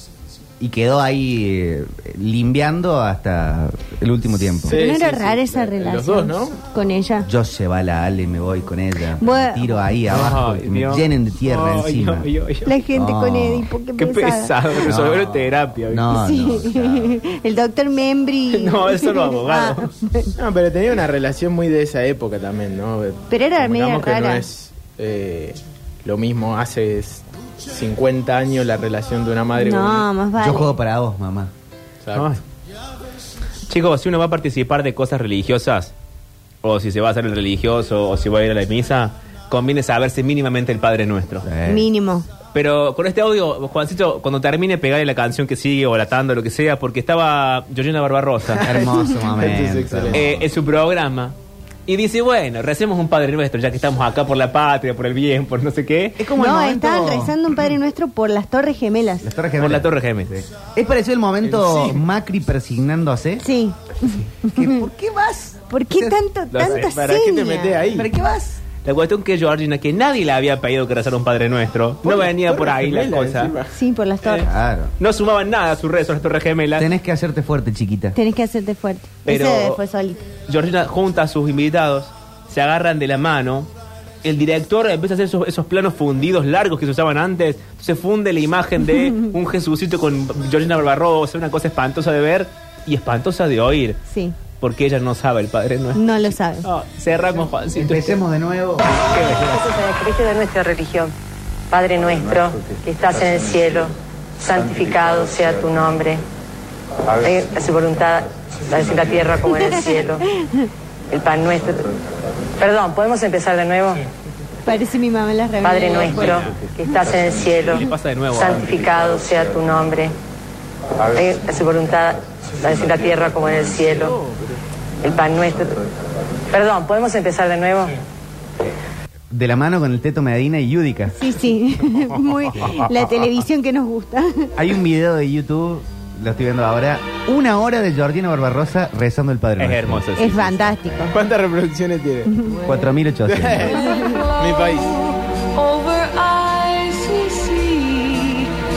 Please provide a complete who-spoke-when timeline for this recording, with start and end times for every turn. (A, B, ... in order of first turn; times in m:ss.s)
0:00.6-0:04.8 A
0:04.6-0:06.6 B
0:04.7-0:07.3 C
0:07.2-0:12.3 A
0:09.2-0:09.9 C
0:10.1-0:12.7 D
0:12.7-0:14.5 C
0:12.9-0:13.7 A
0:14.0-0:16.3 D
0:14.8-0:17.1 A
0:16.1-0:20.3 C
0:18.5-0:19.9 D
0:20.4-0:30.1 B
0:23.3-0:24.4 C
0:29.6-0:30.7 C
0:30.4-0:31.5 A
0:32.0-0:32.3 B
0:32.1-0:32.4 D
0:33.7-0:35.9 D
0:36.6-0:41.5 D
0:41.4-0:41.9 A
0:41.7-0:42.3 C
0:42.5-0:48.8 D
0:48.6-0:50.4 A
0:49.2-0:50.3 B
0:50.1-0:51.4 D
0:51.9-0:56.2 D
0:56.2-0:57.4 A
0:56.4-0:59.3 C
0:59.2-1:03.4 A
0:59.6-1:00.4 D
1:01.4-1:02.0 B
1:03.4-1:04.9 C
1:04.6-1:06.2 A
1:05.7-1:07.9 C
1:06.5-1:06.9 D
1:06.7-1:08.1 B
1:07.9-1:08.6 A
1:08.8-1:13.6 D
1:12.0-1:13.8 B
1:13.7-1:14.5 C
1:14.4-1:14.9 A
1:15.0-1:16.9 D
1:16.8-1:18.2 A
1:18.1-1:20.2 C
1:19.3-1:19.8 D
1:20.5-1:23.7 D
1:24.2-1:34.0 D
1:28.9-1:29.1 C
1:34.1-1:34.4 C
1:34.6-1:36.0 D
1:36.0-1:36.7 C
1:36.6-1:38.1 D
1:37.8-1:38.9 A
1:39.1-1:39.7 D
1:39.4-1:41.1 E
1:41.7-1:46.2 E
1:47.2-1:50.2 E
1:49.5-1:50.7 C
1:51.1-1:51.8 E
1:52.6-1:54.0 E
1:54.6-1:56.4 C
1:55.6-2:00.1 E
1:57.6-1:58.7 D
2:01.1-2:04.2 E
2:05.0-2:05.8 E
2:06.5-2:07.9 E
2:09.3-2:11.2 A
2:11.1-2:14.5 C
2:14.6-2:20.0 A
2:19.6-2:21.0 D
2:20.2-2:21.2 C
2:21.1-2:22.6 B
2:22.3-2:22.6 C
2:22.7-2:23.8 A
2:23.2-2:24.9 B
2:23.8-2:24.2 C
2:24.1-2:28.5 F